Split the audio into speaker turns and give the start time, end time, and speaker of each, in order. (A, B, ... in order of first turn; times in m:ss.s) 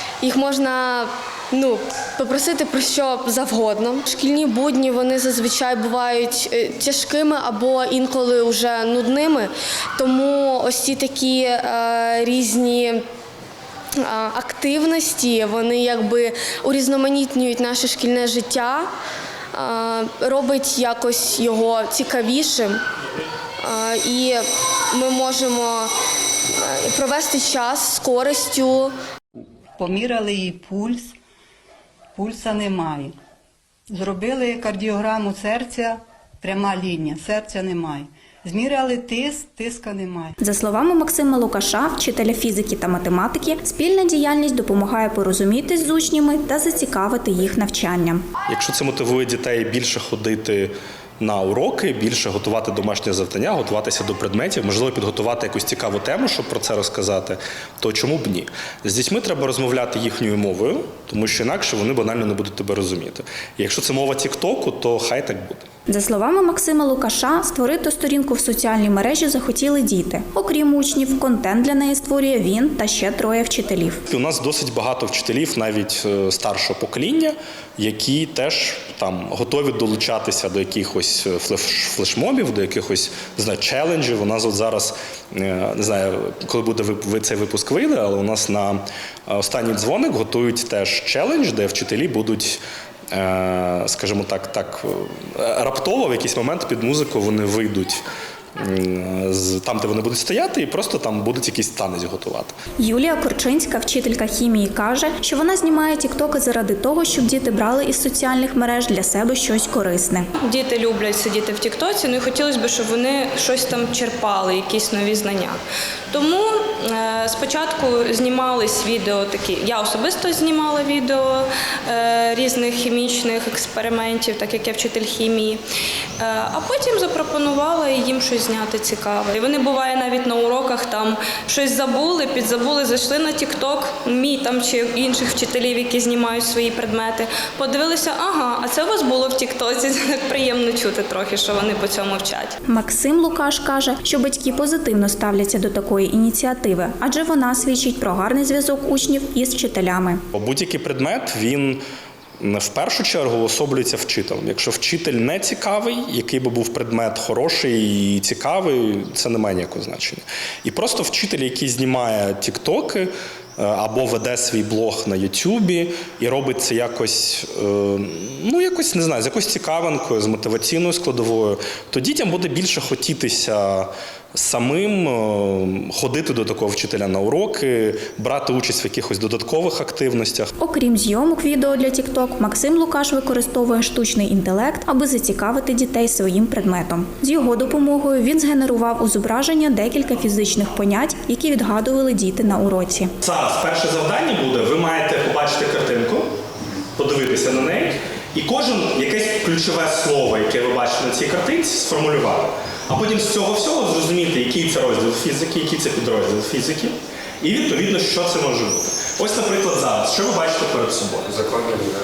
0:00.2-0:13.0 A
0:14.0-0:18.9 A
0:19.5-0:22.8 A
0:23.6-0:25.9 A
0:26.6-0:28.9 A
0:29.8-0:31.2 B
0:32.2-0:33.2 B
0:33.9-0:40.4 B
0:40.4-0:48.2 C
0:48.5-1:05.7 D
1:05.9-1:14.0 C
1:14.1-1:32.6 D
1:33.1-1:38.0 D
1:38.6-1:42.5 D
1:42.8-1:50.3 C
1:50.4-1:55.6 E
1:56.1-2:05.6 E
2:06.2-2:22.6 E
2:22.7-2:30.2 C
2:30.3-2:31.8 D
2:32.4-3:00.5 D
3:00.6-3:13.1 C
3:13.2-3:16.3 D
3:17.0-3:31.6 D